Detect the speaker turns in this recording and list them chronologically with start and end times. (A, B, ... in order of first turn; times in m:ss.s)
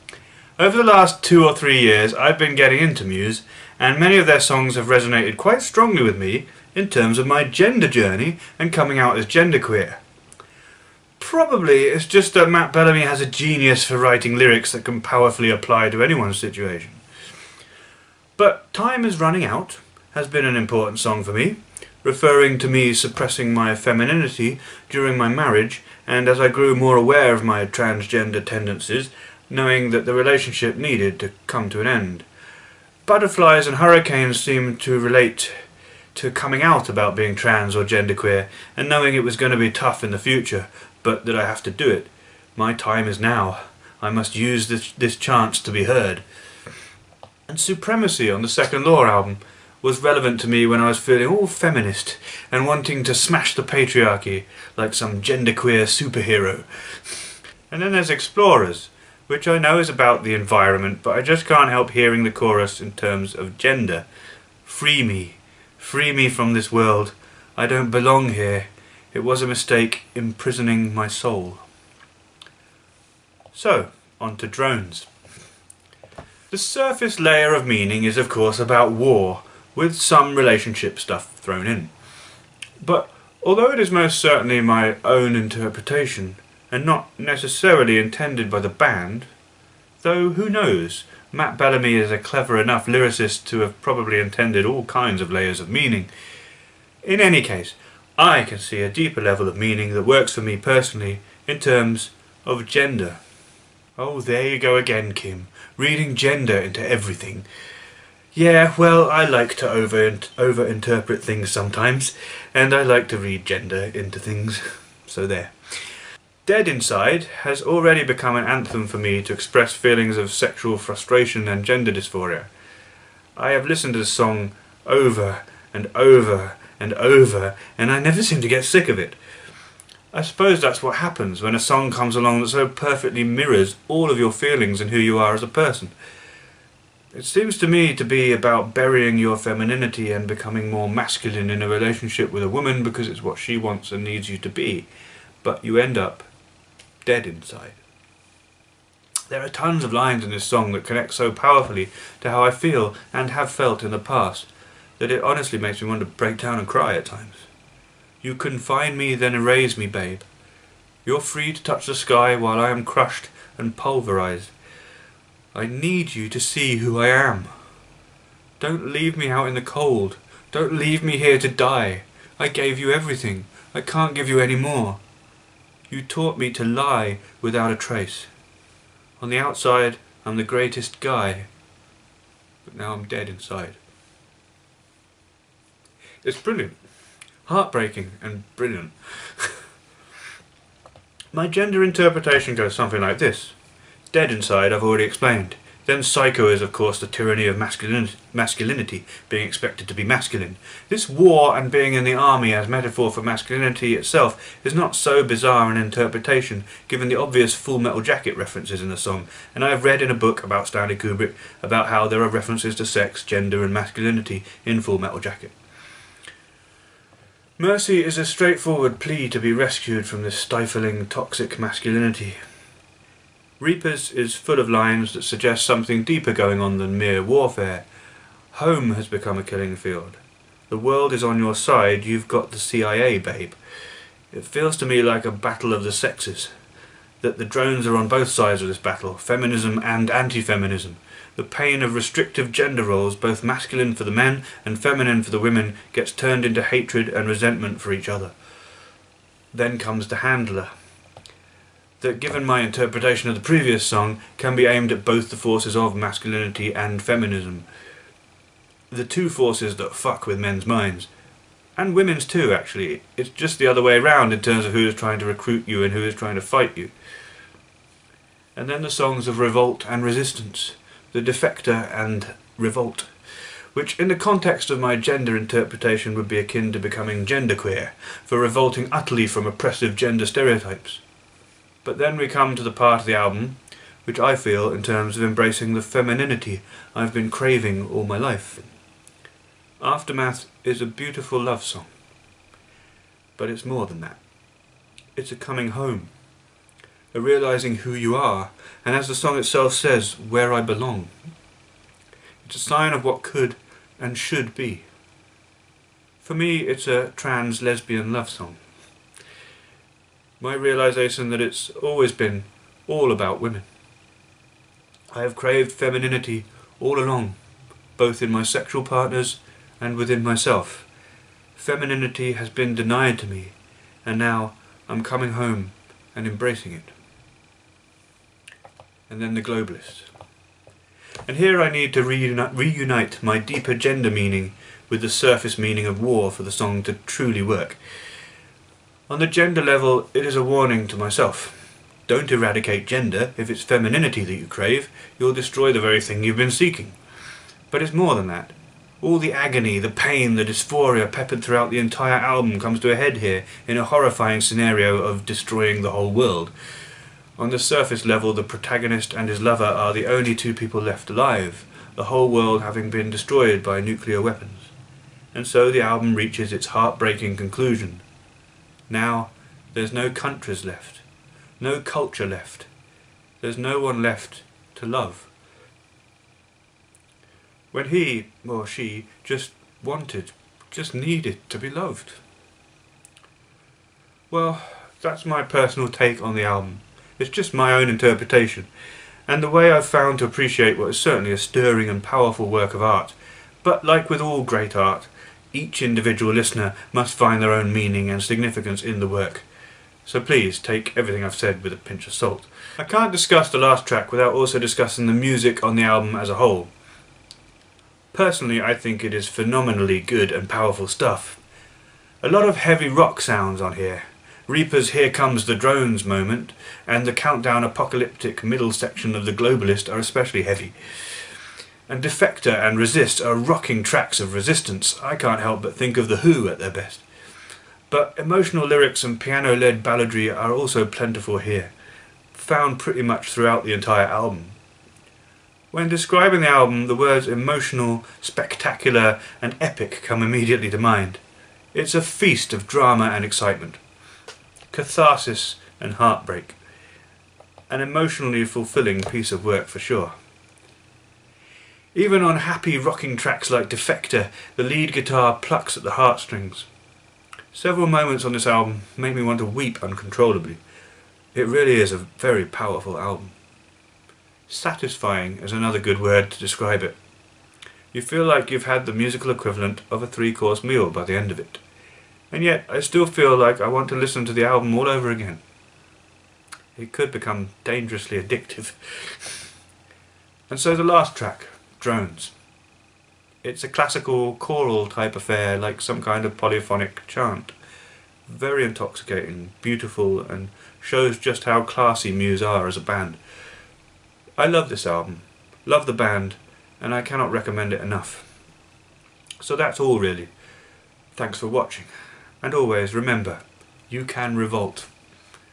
0:00.6-0:10.0 A
0:11.2-0:17.0 A
0:18.4-0:32.2 A
0:33.0-0:35.6 A
0:36.1-0:46.2 A
0:47.5-1:04.0 A
1:04.6-1:11.6 A
1:13.5-1:15.1 A
1:16.5-1:21.9 A
1:22.8-1:29.3 A
1:30.0-1:36.1 A
1:37.0-1:43.2 A
1:44.0-1:47.4 A
1:48.3-1:55.5 A
1:56.4-2:02.5 A
2:03.4-2:09.2 A
2:10.1-2:15.9 A
2:17.1-2:24.9 A
2:25.4-2:26.3 A
2:27.0-2:27.8 A
2:29.3-2:34.5 A
2:35.0-2:37.5 A
2:38.2-2:40.2 A
2:41.0-2:44.5 A
2:45.5-2:47.5 A
2:48.6-2:55.0 A
2:55.9-2:58.3 A
2:59.2-3:01.5 A
3:02.6-3:03.8 A
3:06.2-3:06.8 A
3:07.4-3:09.6 A
3:11.3-3:13.5 A
3:14.1-3:35.5 A
3:37.6-3:42.4 A
3:43.6-3:47.8 A
3:48.5-3:53.6 A
3:54.3-3:56.5 A
3:57.2-4:08.3 A
4:09.5-4:10.7 A
4:12.0-4:17.6 A
4:18.9-4:21.1 A
4:21.8-4:26.9 A
4:28.5-4:33.1 A
4:33.7-4:41.0 A
4:41.8-4:48.7 A
4:49.8-4:51.9 A
4:53.4-4:54.2 A
4:55.2-4:56.1 A
4:57.1-5:01.1 A
5:02.4-5:04.8 A
5:06.2-5:08.6 A
5:10.4-5:13.6 A
5:15.1-5:17.4 A
5:18.0-5:20.9 A
5:21.6-5:23.5 A
5:24.0-5:26.9 A
5:29.1-5:30.1 A
5:31.3-5:37.8 A
5:39.1-5:47.0 A
5:47.7-5:56.5 A
5:57.4-6:04.7 A
6:05.3-6:08.0 A
6:08.9-6:11.0 A
6:11.6-6:12.7 A
6:13.4-6:15.3 A
6:17.7-6:22.2 A
6:24.3-6:28.7 A
6:29.3-6:39.4 A
6:40.0-6:46.7 A
6:48.1-6:51.4 A
6:52.2-7:01.2 A
7:01.9-7:07.0 A
7:07.9-7:11.7 A
7:12.3-7:14.5 A
7:15.7-7:21.2 A
7:21.7-7:23.8 A
7:24.7-7:26.6 A
7:27.7-7:30.1 A
7:31.9-7:36.7 A
7:37.5-7:40.6 A
7:41.3-7:43.3 A
7:44.5-7:47.0 A
7:47.9-7:51.6 A
7:52.3-7:55.4 A
7:56.8-7:59.4 A
8:00.5-8:02.3 A
8:03.4-8:07.5 A
8:08.3-8:13.2 A
8:14.4-8:18.3 A
8:19.4-8:20.3 A
8:21.1-8:21.9 A
8:22.4-8:24.9 A